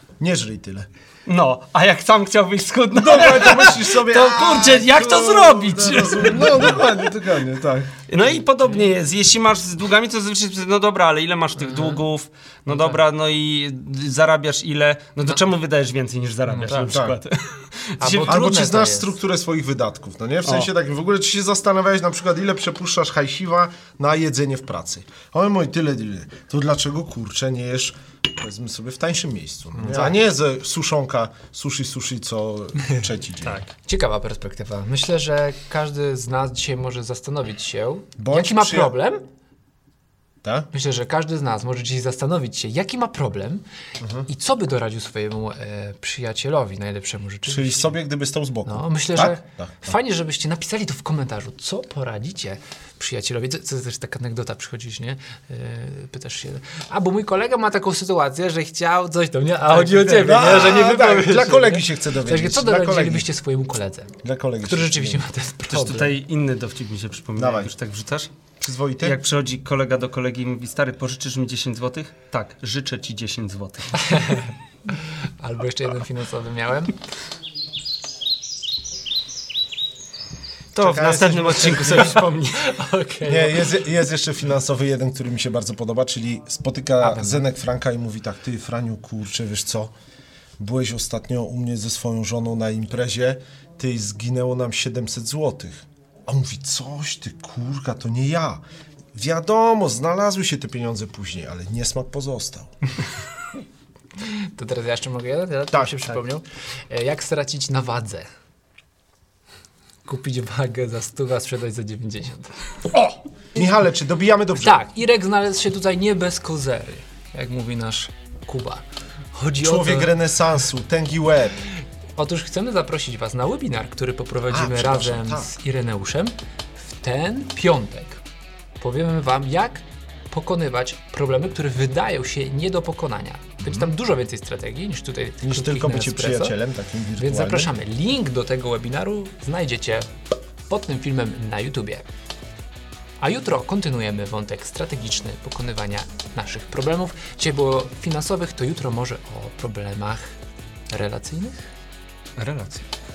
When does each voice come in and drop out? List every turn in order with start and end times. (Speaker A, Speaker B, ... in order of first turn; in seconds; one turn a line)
Speaker A: 0.2-0.9
Speaker B: 1.2-6.9
Speaker A: 2.9-8.0
Speaker B: 8.1-18.5
Speaker C: 11.6-12.0
Speaker C: 12.7-13.0
Speaker C: 16.5-16.9
Speaker A: 16.7-17.2
Speaker C: 18.0-19.1
Speaker A: 18.2-33.6
Speaker C: 29.8-30.2
Speaker B: 33.4-33.7
Speaker C: 33.8-39.2
Speaker A: 38.2-38.9
Speaker A: 40.4-40.7
Speaker C: 40.7-43.6
Speaker A: 44.0-44.2
Speaker C: 44.2-47.9
Speaker A: 47.5-49.9
Speaker C: 48.6-64.1
Speaker A: 59.7-63.3
Speaker A: 64.2-65.2
Speaker C: 64.6-66.2
Speaker B: 65.7-68.3
Speaker A: 67.3-67.7
Speaker A: 68.6-69.2
Speaker B: 69.0-74.4
Speaker C: 74.0-77.0
Speaker B: 80.7-82.6
Speaker A: 80.8-82.2
Speaker C: 82.6-83.7
Speaker A: 83.2-89.9
Speaker C: 87.0-87.4
Speaker A: 90.6-98.6
Speaker A: 99.1-102.7
Speaker C: 104.2-108.3
Speaker A: 105.7-106.0
Speaker C: 110.0-113.1
Speaker A: 113.5-114.8
Speaker C: 114.5-120.1
Speaker A: 119.6-121.6
Speaker C: 122.2-128.2
Speaker A: 124.5-125.5
Speaker C: 128.8-136.6
Speaker A: 133.6-133.9
Speaker A: 135.4-137.7
Speaker C: 137.2-140.1
Speaker C: 140.7-142.1
Speaker C: 143.2-150.3
Speaker C: 150.9-151.7
Speaker B: 152.4-152.8